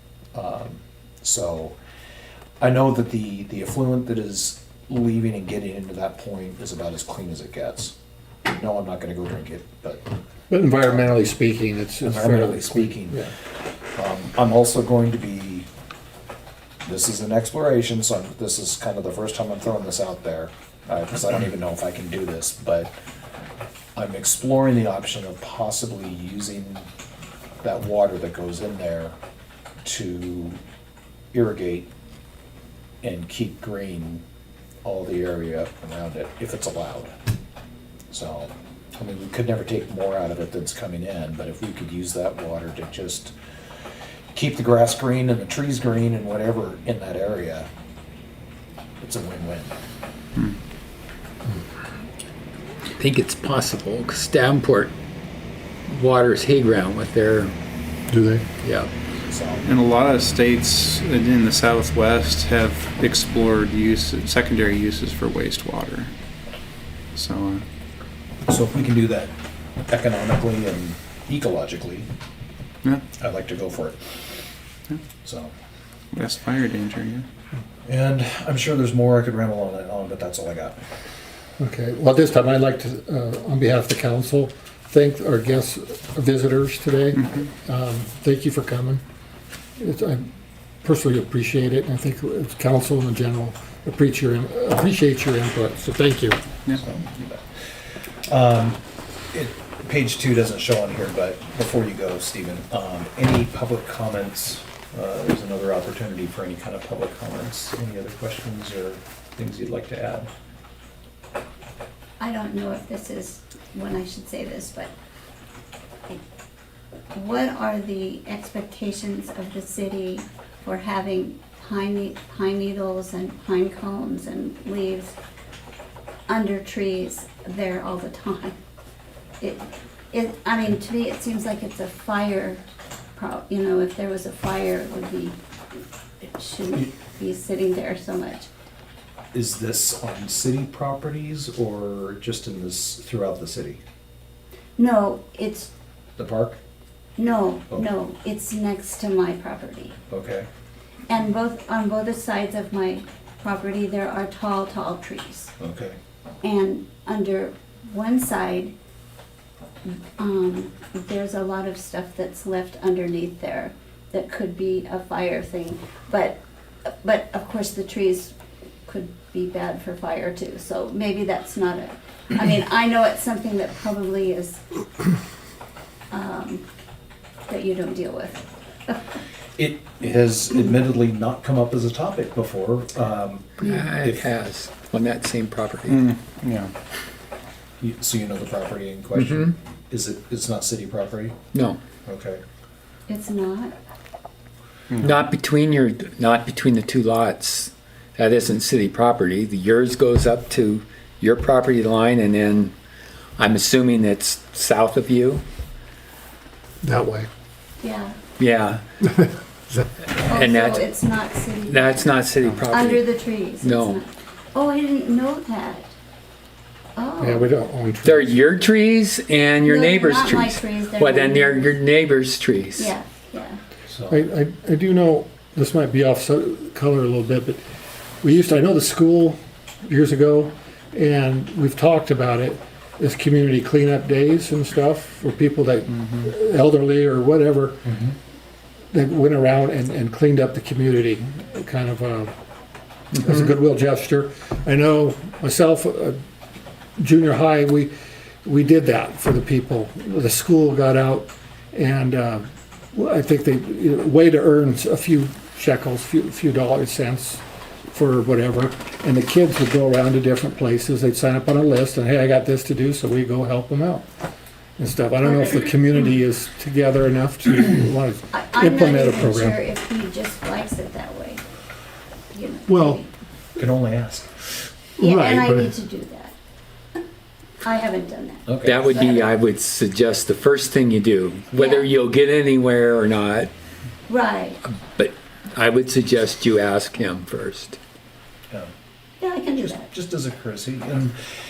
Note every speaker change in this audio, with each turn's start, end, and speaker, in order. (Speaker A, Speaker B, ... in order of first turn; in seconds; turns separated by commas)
Speaker A: 0.3-1.8, Speaker A: 2.6-10.1, Speaker B: 10.5-13.3, Speaker A: 10.8-11.1, Speaker A: 12.0-13.3, Speaker A: 13.9-15.7, Speaker A: 16.8-22.9, Speaker A: 23.9-26.9, Speaker A: 27.6-29.1, Speaker A: 29.8-30.6, Speaker A: 31.3-31.9, Speaker A: 33.0-34.2, Speaker A: 34.8-37.1, Speaker A: 38.1-43.3, Speaker A: 44.3-47.7, Speaker A: 49.0-49.7, Speaker C: 53.0-54.9, Speaker C: 55.9-57.5, Speaker B: 58.1-58.4, Speaker C: 58.6-58.9, Speaker A: 59.2-59.7, Speaker D: 59.6-66.1, Speaker D: 67.1-67.6, Speaker A: 68.5-69.3, Speaker A: 69.9-72.1, Speaker A: 73.2-74.0, Speaker A: 75.2-75.5, Speaker D: 76.1-77.2, Speaker A: 77.8-80.8, Speaker B: 81.6-89.0, Speaker D: 87.2-87.5, Speaker B: 89.8-90.2, Speaker B: 90.8-96.4, Speaker A: 96.7-98.8, Speaker A: 99.3-110.3, Speaker E: 112.2-114.9, Speaker E: 117.1-125.2, Speaker E: 126.3-128.6, Speaker E: 129.4-132.6, Speaker E: 133.2-135.4, Speaker E: 136.2-138.5, Speaker A: 139.3-143.8, Speaker E: 144.8-145.7, Speaker A: 146.2-146.6, Speaker E: 147.2-150.0, Speaker A: 150.1-150.5, Speaker E: 151.1-155.5, Speaker A: 155.6-156.0, Speaker E: 156.4-158.7, Speaker E: 159.8-168.3, Speaker E: 168.8-174.6, Speaker E: 176.1-176.6, Speaker E: 177.5-179.0, Speaker A: 179.6-184.3, Speaker C: 183.6-186.1, Speaker D: 185.9-186.7, Speaker A: 187.8-191.3, Speaker C: 189.2-189.5, Speaker C: 191.5-191.8, Speaker A: 192.1-192.4, Speaker E: 193.1-193.7, Speaker C: 195.0-202.7, Speaker C: 203.4-205.4, Speaker B: 206.8-207.3, Speaker E: 207.8-208.2, Speaker C: 208.4-208.8, Speaker C: 210.2-210.9, Speaker E: 210.2-212.1, Speaker C: 211.7-214.0, Speaker E: 212.7-215.9, Speaker E: 216.9-217.5, Speaker B: 217.2-218.4, Speaker C: 218.0-222.9, Speaker E: 219.6-221.8, Speaker E: 222.8-223.6, Speaker A: 223.9-224.2, Speaker B: 224.1-227.6, Speaker B: 228.2-237.9, Speaker A: 237.9-238.1, Speaker B: 238.9-242.3, Speaker B: 243.1-246.2, Speaker B: 247.0-247.9, Speaker B: 248.4-264.0, Speaker B: 264.8-269.6, Speaker E: 268.3-271.4, Speaker E: 272.3-273.1, Speaker B: 272.7-273.0, Speaker A: 273.6-274.5, Speaker B: 275.0-275.7, Speaker E: 275.0-276.3, Speaker E: 277.6-279.3, Speaker A: 278.5-278.8, Speaker C: 278.6-283.5, Speaker E: 281.6-281.9, Speaker E: 284.1-284.6, Speaker C: 284.6-287.8, Speaker E: 289.2-289.9, Speaker A: 289.5-291.1